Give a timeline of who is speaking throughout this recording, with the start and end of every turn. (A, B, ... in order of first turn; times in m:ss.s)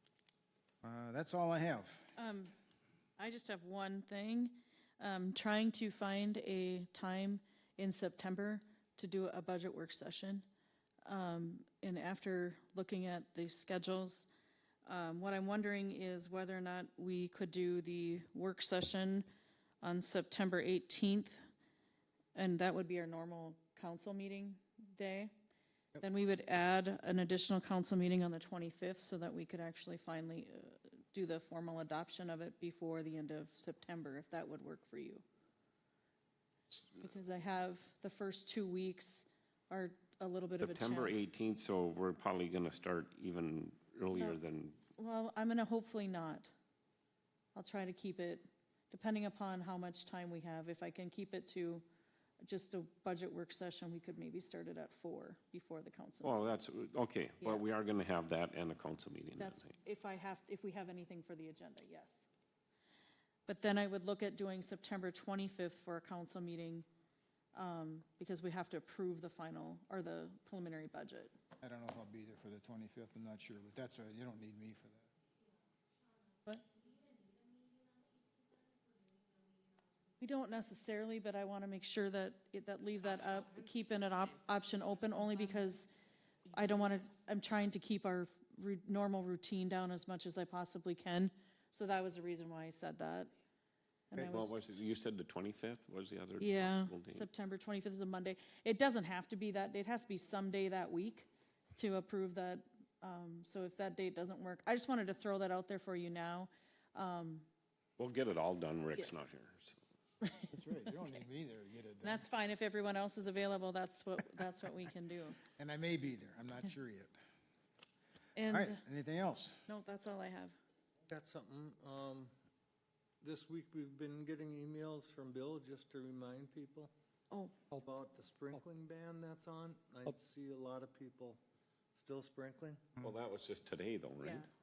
0:00.8-0:02.1 A
0:02.2-0:02.5 B
0:03.2-0:10.5 B
0:11.0-0:14.3 B
0:14.8-0:19.3 B
0:19.8-0:21.4 B
0:22.4-0:25.3 B
0:26.0-0:35.2 B
0:37.0-0:41.2 B
0:40.6-0:44.8 C
0:44.1-0:44.4 B
0:45.0-0:46.5 B
0:47.5-0:51.8 B
0:52.4-0:56.4 B
0:56.2-0:59.7 C
0:59.4-1:02.3 B
1:03.4-1:06.9 B
1:07.5-1:11.3 B
1:11.6-1:15.0 A
1:20.2-1:25.9 B
1:26.5-1:33.3 B
1:34.1-1:34.6 B
1:34.2-1:37.3 C
1:36.4-1:47.4 B
1:48.0-1:49.8 C
1:50.2-1:50.5 B
1:50.5-1:52.2 A
1:52.0-1:55.4 B
1:55.6-1:57.1 A
1:58.4-1:58.8 B
1:58.5-1:59.6 A
1:59.7-2:00.6 B
2:01.1-2:02.3 D
2:03.2-2:06.9 D
2:07.3-2:07.7 B
2:07.8-2:11.4 D
2:12.0-2:12.8 D
2:13.0-2:14.5 C
2:14.2-2:14.5 B